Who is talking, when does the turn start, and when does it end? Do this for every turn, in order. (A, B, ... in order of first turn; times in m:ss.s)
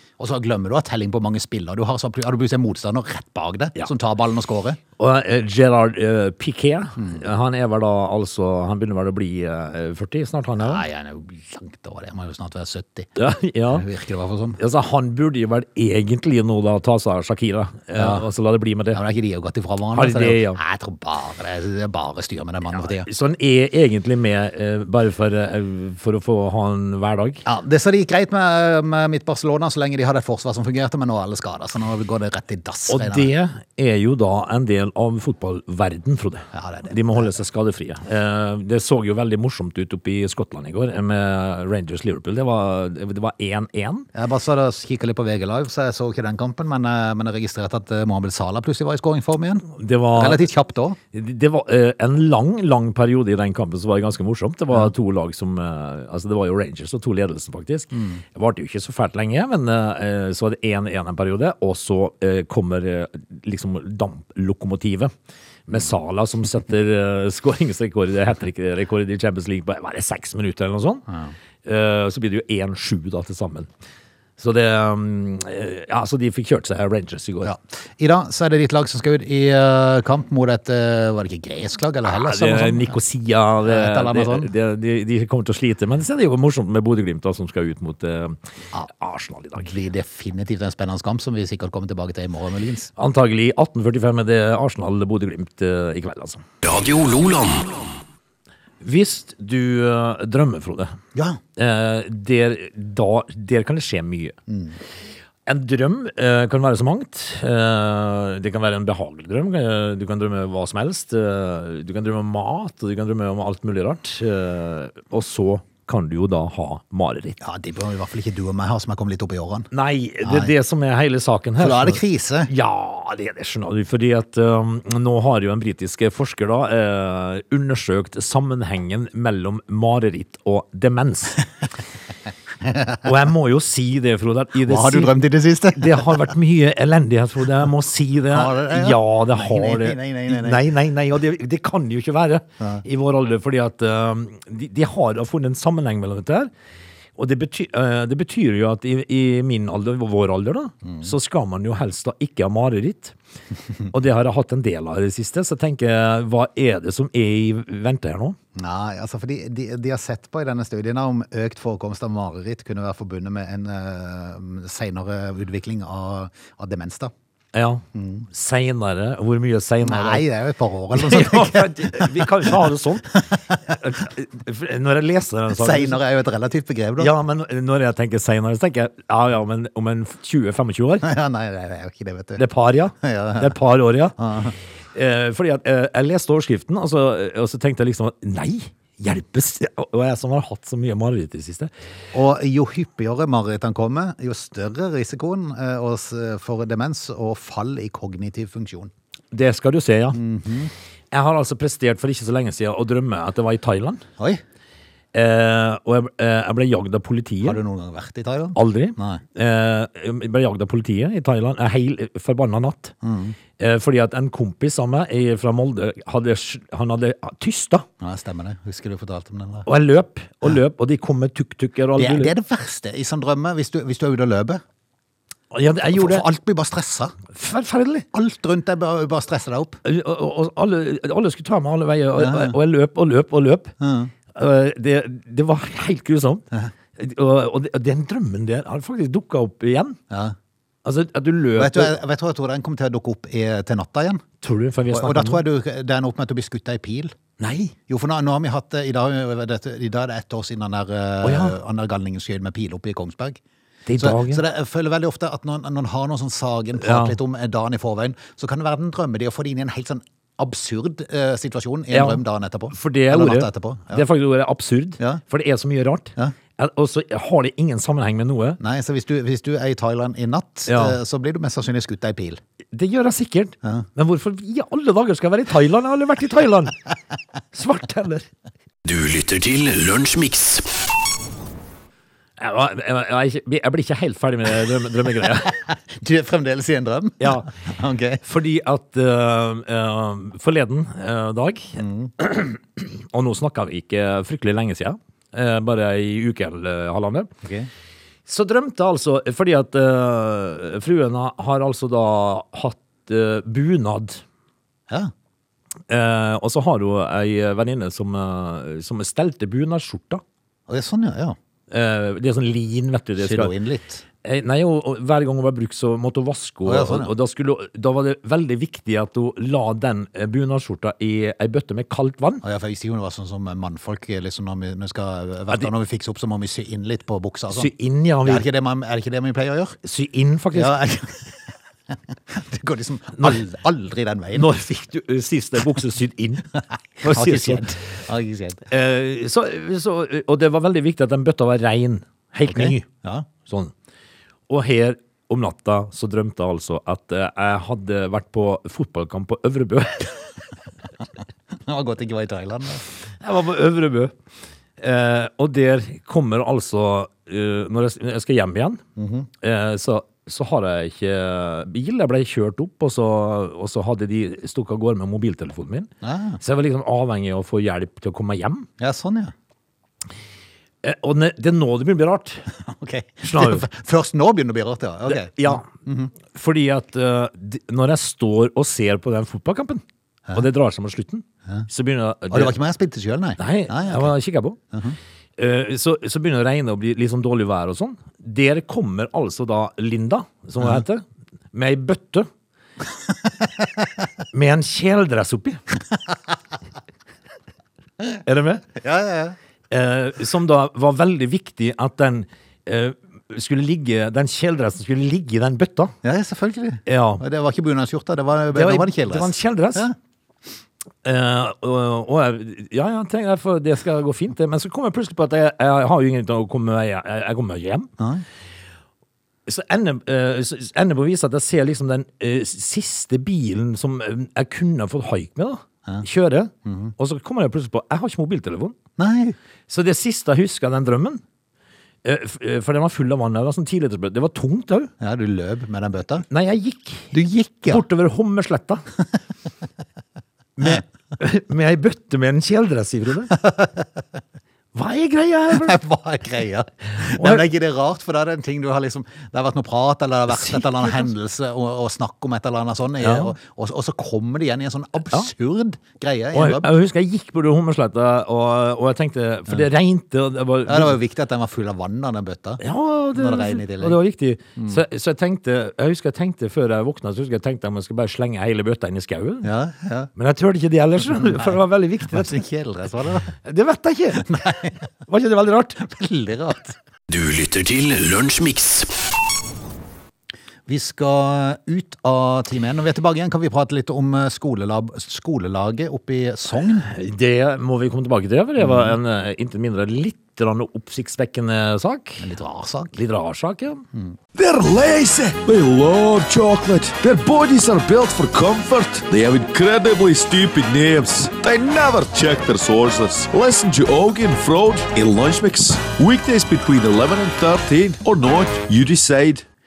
0:00.2-0:04.8 A
0:05.0-0:10.8 B
0:10.6-0:13.1 A
0:13.2-0:13.8 B
0:13.7-0:14.6 A
0:14.6-0:19.0 B
0:18.0-0:18.2 A
0:18.9-0:23.1 A
0:19.9-0:20.6 B
0:22.7-0:27.4 B
0:27.4-0:33.3 A
0:32.9-0:44.1 B
0:36.5-0:37.3 A
0:44.1-0:51.0 A
0:49.7-0:50.5 B
0:51.1-1:05.1 B
0:57.9-0:58.2 A
1:05.7-1:11.0 B
1:11.1-1:11.3 A
1:11.6-1:13.7 B
1:14.4-1:17.5 B
1:17.4-1:23.0 A
1:22.0-1:29.7 B
1:23.6-1:24.5 A
1:29.6-1:32.9 A
1:33.0-1:36.4 B
1:36.6-1:38.0 C
1:38.8-1:40.9 B
1:41.1-1:41.4 A
1:41.6-1:44.4 B
1:44.5-1:44.7 A
1:45.4-1:57.4 B
1:57.4-1:59.7 A
1:59.7-2:11.4 B
2:00.2-2:00.5 A
2:01.6-2:02.5 A
2:12.7-2:13.0 A
2:13.0-2:15.2 B
2:14.6-2:16.2 A
2:15.7-2:26.5 B
2:18.3-2:20.6 A
2:27.2-2:33.1 B
2:30.8-2:31.1 A
2:33.9-2:38.4 B
2:38.5-2:47.1 A
2:47.5-2:50.2 B
2:47.9-2:48.2 A
2:49.8-2:52.6 A
2:50.9-2:56.0 B
2:53.1-2:53.6 A
2:55.5-2:57.1 A
2:57.0-3:01.0 B
3:01.0-3:02.4 A
3:02.4-3:04.2 B
3:03.0-3:03.5 A
3:04.2-3:04.6 A
3:04.9-3:11.7 B
3:12.1-3:18.9 A
3:19.3-3:20.2 B
3:20.1-3:20.7 A
3:21.1-3:24.0 B
3:25.1-3:27.6 B
3:27.4-3:29.2 A
3:28.5-3:32.9 B
3:33.0-3:33.4 A
3:33.6-3:37.8 B
3:38.0-3:39.7 A
3:39.6-3:42.3 B
3:42.0-3:44.6 A
3:45.5-3:46.2 B
3:45.9-3:47.2 A
3:47.3-3:48.1 B
3:48.1-3:49.8 A
3:49.8-3:53.7 B
3:52.2-3:52.6 A
3:53.8-3:54.1 A
3:54.3-3:56.4 B
3:57.0-4:00.0 B
4:00.1-4:00.3 A
4:00.8-4:01.9 B
4:01.6-4:04.2 A
4:04.4-4:05.4 B
4:04.9-4:07.2 A
4:07.4-4:07.7 B
4:07.9-4:13.4 A
4:11.2-4:11.6 B
4:13.8-4:14.4 B
4:14.0-4:24.0 A
4:16.8-4:17.2 B
4:21.9-4:28.6 B
4:28.6-4:32.4 A
4:30.7-4:31.0 B
4:32.7-4:36.8 B
4:37.5-4:38.3 B
4:38.8-4:40.9 C
4:42.4-4:45.6 B
4:45.4-4:48.2 A
4:47.2-4:47.5 B
4:48.2-4:57.3 B
4:51.8-4:52.1 A
4:57.4-4:57.7 A
4:58.3-5:04.2 B
5:05.9-5:10.2 B
5:10.7-5:11.4 A
5:11.7-5:13.5 B
5:13.2-5:14.0 A
5:14.2-5:22.4 B
5:16.6-5:17.1 A
5:22.4-5:27.7 A
5:27.5-5:28.4 B
5:28.2-5:29.8 A
5:29.8-5:30.7 B
5:30.5-5:31.3 A
5:32.3-5:34.5 A
5:34.3-5:36.5 B
5:37.0-5:37.7 B
5:37.0-5:38.6 A
5:38.7-5:42.9 B
5:42.5-5:43.3 A
5:43.4-5:43.7 B
5:44.5-5:50.2 B
5:51.6-5:52.8 A
5:53.2-5:54.1 B
5:54.8-5:58.8 B
5:59.0-5:59.3 A
5:59.4-6:08.7 B
6:06.0-6:06.4 A
6:08.8-6:09.3 A
6:10.8-6:12.5 B
6:12.6-6:16.1 A
6:13.2-6:13.6 B
6:15.1-6:15.6 B
6:16.3-6:19.8 B
6:20.3-6:22.5 B
6:22.3-6:24.1 A
6:23.4-6:24.6 B
6:24.7-6:25.0 A
6:25.4-6:32.3 B
6:34.3-6:35.6 B
6:38.2-6:38.7 B
6:38.8-6:39.4 A
6:39.7-6:45.9 B
6:46.0-6:49.9 A
6:46.8-6:47.2 B
6:48.5-6:49.9 B
6:51.0-6:57.9 B
6:58.0-6:58.2 A
6:59.4-7:08.8 B
7:06.6-7:06.9 A
7:09.0-7:09.4 A
7:09.7-7:11.2 B
7:12.0-7:14.9 B
7:15.0-7:16.2 A
7:16.3-7:17.1 B
7:17.1-7:17.8 A
7:17.7-7:18.8 B
7:20.6-7:23.3 B
7:23.3-7:23.8 A
7:24.7-7:25.8 B
7:25.5-7:36.7 A
7:27.0-7:27.4 B
7:30.3-7:31.1 B
7:33.0-7:33.3 B
7:36.3-7:41.0 B
7:40.6-7:42.6 A
7:42.6-7:49.5 B
7:43.1-7:44.0 A
7:49.4-7:50.1 A
7:50.1-7:52.4 B
7:51.1-7:51.6 A
7:52.1-7:53.3 A
7:53.4-7:54.3 B
7:54.2-7:54.8 A
7:55.1-7:55.9 B
7:55.8-7:56.7 A
7:57.1-7:59.1 C
8:00.7-8:06.9 A
8:06.8-8:12.3 B
8:08.6-8:08.9 A
8:12.2-8:13.0 A
8:12.9-8:13.8 B
8:14.3-8:29.4 D